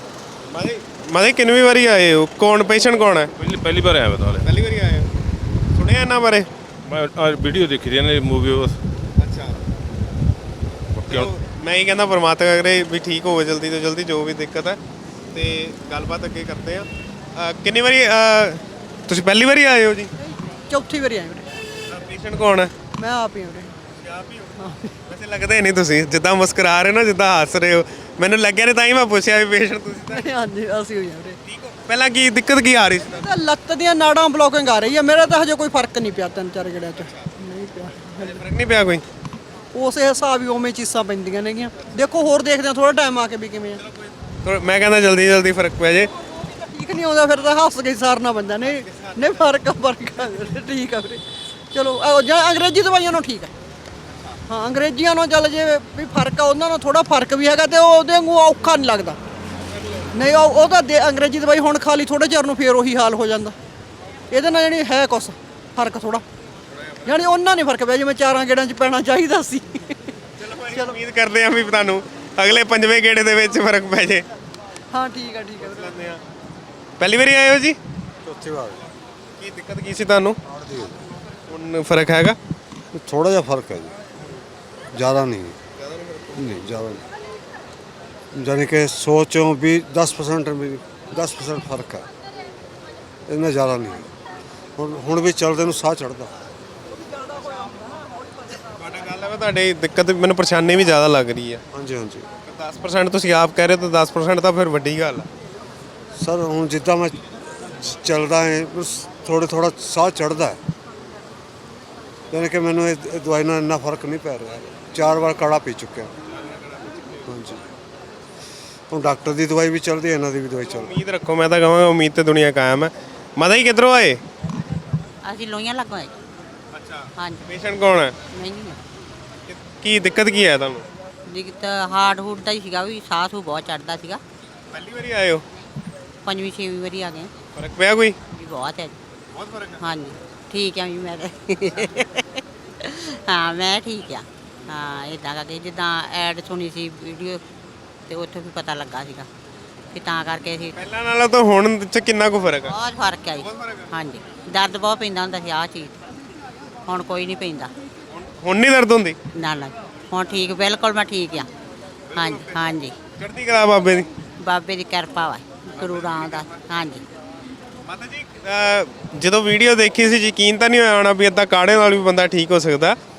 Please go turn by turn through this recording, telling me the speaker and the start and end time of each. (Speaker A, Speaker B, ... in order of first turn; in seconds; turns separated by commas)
Speaker A: 0.5-3.3, Speaker B: 3.4-4.5, Speaker A: 4.4-5.1, Speaker A: 5.7-6.5, Speaker B: 6.9-8.8, Speaker A: 9.2-9.6, Speaker B: 10.9-11.3, Speaker A: 11.1-14.8, Speaker A: 15.3-20.1, Speaker C: 20.2-21.5, Speaker A: 21.9-22.7, Speaker C: 22.9-23.7, Speaker A: 24.0-24.5, Speaker C: 24.6-24.9, Speaker A: 25.1-30.3, Speaker C: 30.1-31.4, Speaker A: 31.5-33.2, Speaker C: 33.2-38.4, Speaker A: 38.2-39.0, Speaker C: 39.7-43.9, Speaker A: 44.4-46.1, Speaker C: 46.7-51.2, Speaker C: 51.7-53.5, Speaker C: 54.5-59.2, Speaker C: 60.1-63.5, Speaker C: 64.3-66.2, Speaker C: 67.0-69.9, Speaker A: 70.4-74.2, Speaker C: 74.9-76.0, Speaker A: 75.6-76.2, Speaker A: 77.0-77.8, Speaker D: 78.2-78.8, Speaker A: 79.4-80.4, Speaker D: 80.5-81.0, Speaker A: 81.5-82.4, Speaker D: 82.9-83.9, Speaker D: 84.9-85.6, Speaker A: 85.8-86.3, Speaker D: 86.3-87.0, Speaker D: 88.3-92.0, Speaker D: 93.3-94.1, Speaker D: 94.8-96.4, Speaker A: 98.8-101.6, Speaker D: 101.7-102.3, Speaker A: 102.4-105.3, Speaker D: 106.2-110.6, Speaker D: 112.3-116.1, Speaker A: 116.4-117.2, Speaker D: 117.2-117.7, Speaker D: 118.9-121.0, Speaker A: 120.6-124.2, Speaker E: 125.2-126.1, Speaker A: 126.7-128.1, Speaker E: 127.2-127.4, Speaker E: 128.3-128.8, Speaker A: 129.5-130.8, Speaker E: 131.3-134.2, Speaker A: 134.7-135.4, Speaker E: 136.2-137.3, Speaker A: 137.6-138.2, Speaker E: 138.3-138.9, Speaker A: 139.3-139.8, Speaker E: 139.8-147.4, Speaker E: 148.1-149.3, Speaker E: 149.9-150.8, Speaker A: 150.8-152.8, Speaker E: 152.6-155.9, Speaker A: 153.4-153.9, Speaker E: 156.9-157.7, Speaker A: 158.1-159.2, Speaker E: 159.4-161.5, Speaker A: 162.1-162.5, Speaker E: 162.1-162.9, Speaker A: 163.2-164.1, Speaker E: 164.4-167.0, Speaker A: 165.8-166.4, Speaker A: 167.9-173.0